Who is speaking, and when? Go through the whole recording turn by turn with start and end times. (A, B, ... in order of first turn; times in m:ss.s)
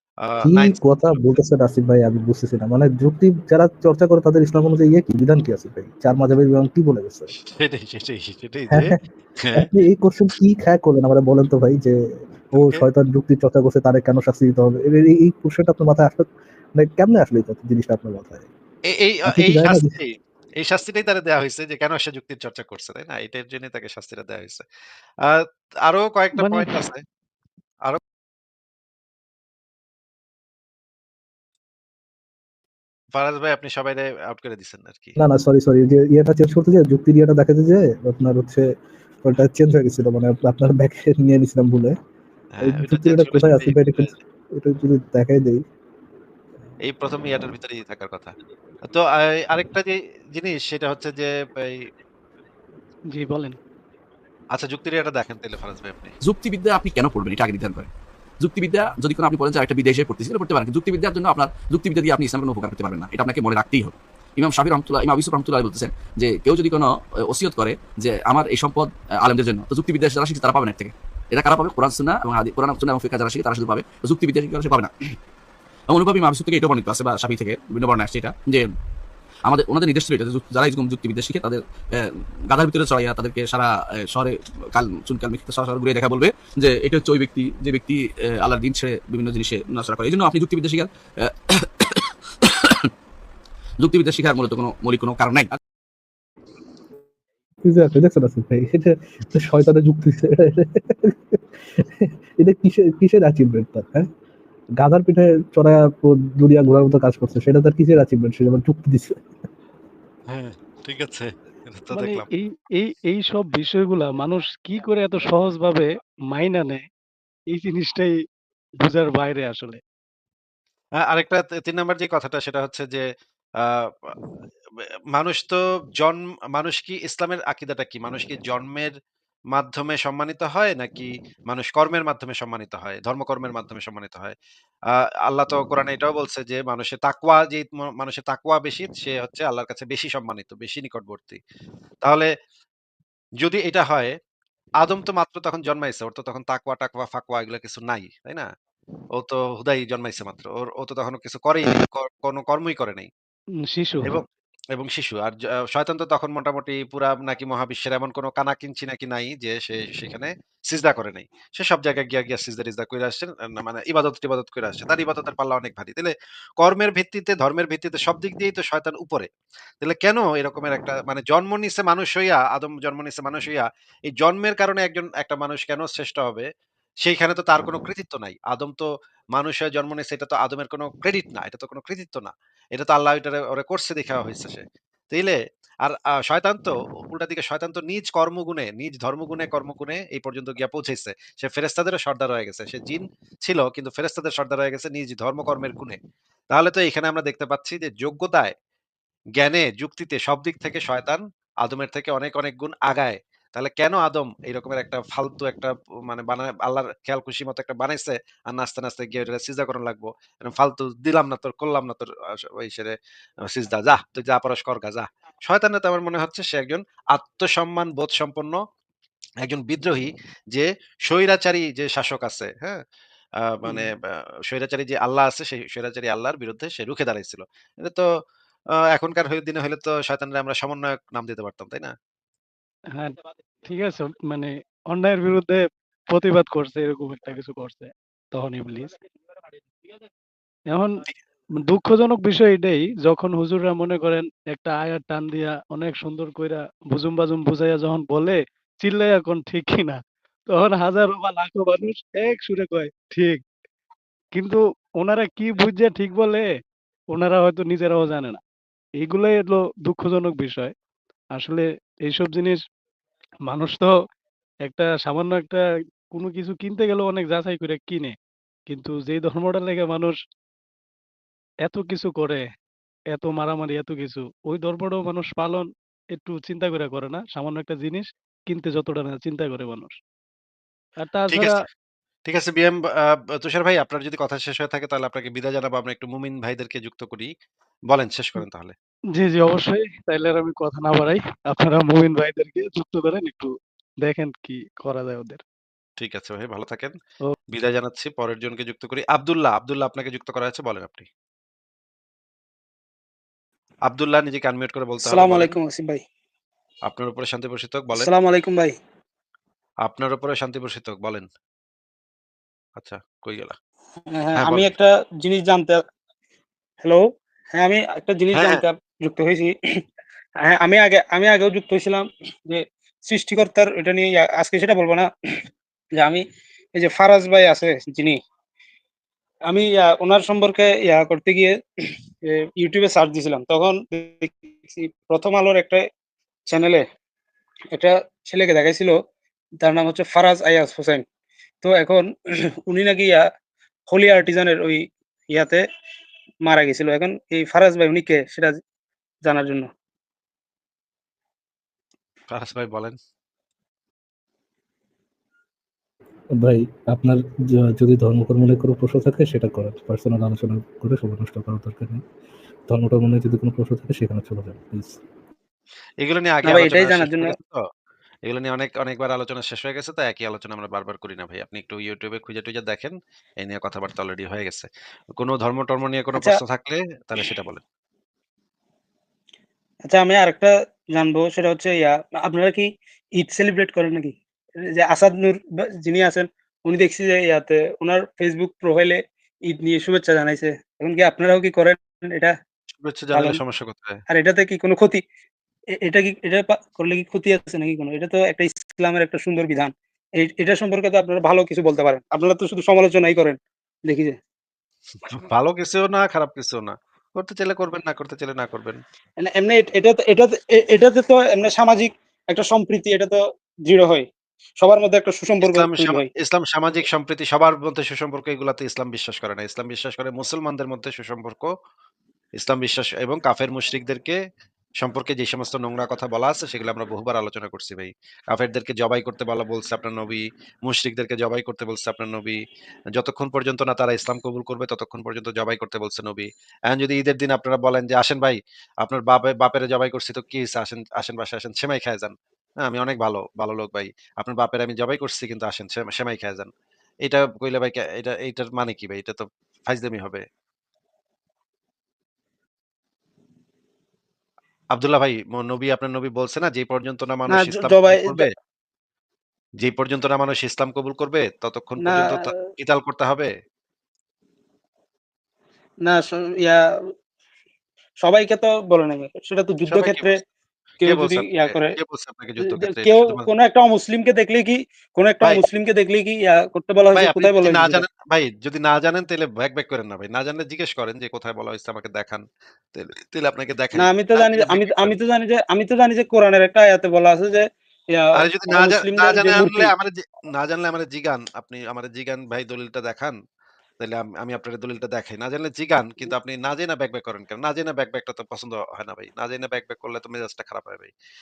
0:00.2-0:00.8 A
0:00.4-0:07.3 B
0:07.4-0:09.7 A
0:08.7-0:09.0 B
0:09.5-0:12.0 B
0:12.5-0:18.5 B
0:12.6-0:12.8 A
0:18.9-0:24.6 A
0:19.3-0:19.9 B
0:25.2-0:27.0 A
0:26.4-0:26.7 B
0:33.1-0:35.2 A
0:35.2-0:38.6 B
0:39.2-0:41.9 B
0:42.5-0:44.2 A
0:42.6-0:45.6 B
0:46.9-0:48.3 A
0:48.9-0:51.8 A
0:53.1-0:53.6 C
0:54.5-0:56.1 A
0:56.2-0:57.9 D
0:58.4-1:14.9 D
1:15.9-1:18.7 D
1:19.5-1:32.9 D
1:33.8-1:35.6 D
1:37.6-1:44.0 B
1:44.8-1:49.2 B
1:50.3-1:52.2 A
1:51.9-1:56.8 C
1:57.5-1:58.1 C
1:58.8-1:59.8 C
2:01.1-2:03.0 A
2:03.6-2:04.1 A
2:05.1-2:08.9 A
2:09.5-2:14.3 A
2:15.3-2:21.4 A
2:22.0-2:22.3 A
2:23.4-2:24.1 A
2:24.8-2:28.4 A
2:29.2-2:33.1 A
2:33.7-2:34.2 C
2:34.0-2:49.3 A
2:49.8-2:53.6 A
2:54.1-2:56.5 A
2:57.0-3:16.0 A
3:16.5-3:18.5 A
3:19.4-3:32.9 A
3:33.5-3:38.6 A
3:39.4-3:42.8 A
3:43.4-3:43.9 A
3:44.5-3:48.0 A
3:48.9-3:51.9 A
3:53.7-3:58.9 C
4:00.7-4:01.0 C
4:01.6-4:10.0 C
4:10.5-4:13.4 C
4:14.4-4:16.5 C
4:17.1-4:18.4 C
4:19.0-4:20.7 C
4:21.4-4:22.6 C
4:23.5-4:23.9 C
4:24.7-4:25.6 C
4:26.1-4:28.1 C
4:28.7-4:30.2 C
4:31.6-4:32.4 C
4:33.1-4:40.0 C
4:41.0-4:41.5 C
4:42.3-4:47.3 A
4:47.9-4:48.7 A
4:49.2-4:53.5 C
4:54.0-4:55.4 C
4:56.0-4:56.9 A
4:57.5-5:01.1 A
5:03.9-5:05.5 A
5:05.0-5:06.0 E
5:06.9-5:08.1 A
5:07.9-5:08.7 E
5:09.8-5:11.3 A
5:12.8-5:13.5 A
5:14.1-5:15.8 E
5:14.4-5:14.7 A
5:16.8-5:19.5 E
5:18.3-5:18.6 A
5:20.4-5:25.1 E
5:26.0-5:26.2 E
5:26.7-5:28.2 E
5:29.5-5:31.5 E
5:32.2-5:35.8 E
5:36.5-5:36.8 E
5:37.7-5:39.0 E
5:39.6-5:41.0 E
5:41.6-5:42.1 E
5:42.6-5:43.2 E
5:43.9-5:45.6 E
5:46.4-5:48.6 E
5:49.2-5:49.7 E
5:52.3-5:53.0 A
5:56.4-6:02.0 B
6:02.7-6:05.0 B
6:06.0-6:07.6 A
6:06.4-6:07.3 E
6:08.3-6:17.6 A
6:19.9-6:32.3 E
6:32.8-6:34.0 A
6:33.1-6:33.4 E
6:34.1-6:35.0 E
6:35.8-6:44.2 E
6:45.1-6:48.8 A
6:49.2-6:54.1 E
6:54.6-6:56.1 E
6:55.4-7:01.5 A
7:02.4-7:04.2 A
7:04.8-7:12.4 A
7:13.0-7:26.5 A
7:27.0-7:30.2 A
7:34.7-7:38.2 A
7:37.3-7:38.2 E
7:39.6-7:43.3 A
7:41.8-7:42.2 E
7:45.8-7:46.6 E
7:48.0-7:50.2 E
7:49.7-7:50.1 A
7:50.8-7:51.7 E
7:50.8-7:53.3 A
7:52.4-7:57.8 E
7:56.9-8:04.9 A
8:03.8-8:09.7 E
8:08.2-8:13.2 A
8:13.8-8:20.9 A